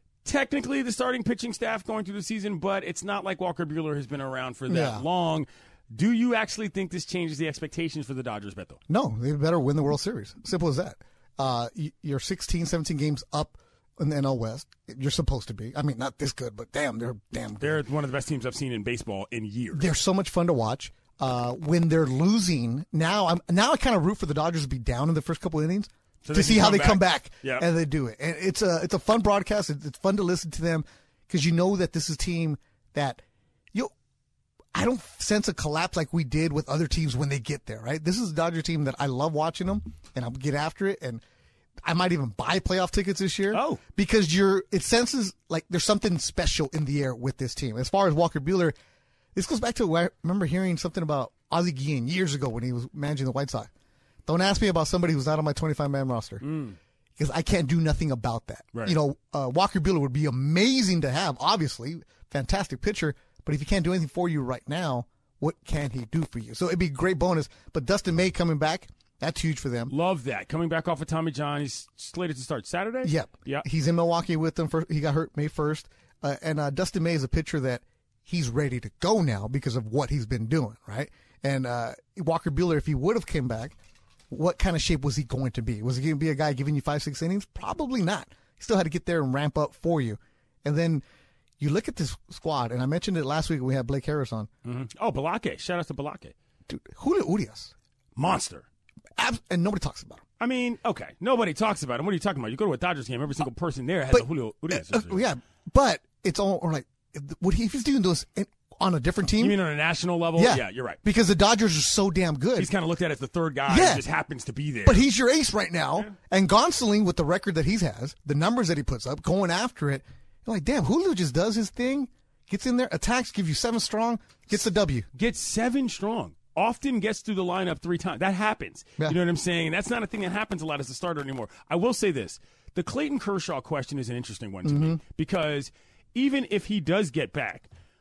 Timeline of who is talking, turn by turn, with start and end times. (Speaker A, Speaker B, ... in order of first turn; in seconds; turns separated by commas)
Speaker A: 0.2-8.8, Speaker B: 4.7-5.0, Speaker B: 8.9-17.8, Speaker A: 17.6-19.9, Speaker B: 19.7-33.2, Speaker A: 26.2-27.7, Speaker B: 34.7-41.2, Speaker B: 41.8-48.7, Speaker A: 43.5-43.8, Speaker B: 49.3-53.7, Speaker B: 54.2-56.4, Speaker A: 56.4-56.8, Speaker B: 57.2-69.9, Speaker A: 69.9-73.7, Speaker B: 73.0-83.7, Speaker B: 84.3-91.0, Speaker B: 91.6-94.5, Speaker A: 94.6-96.3, Speaker B: 96.7-97.7, Speaker A: 98.2-98.6, Speaker B: 99.2-100.2, Speaker A: 100.4-105.3, Speaker B: 104.1-109.6, Speaker A: 109.4-111.0, Speaker B: 110.3-112.7, Speaker A: 112.5-115.1, Speaker B: 113.7-114.0, Speaker B: 114.8-125.1, Speaker A: 125.1-137.7, Speaker B: 134.6-135.0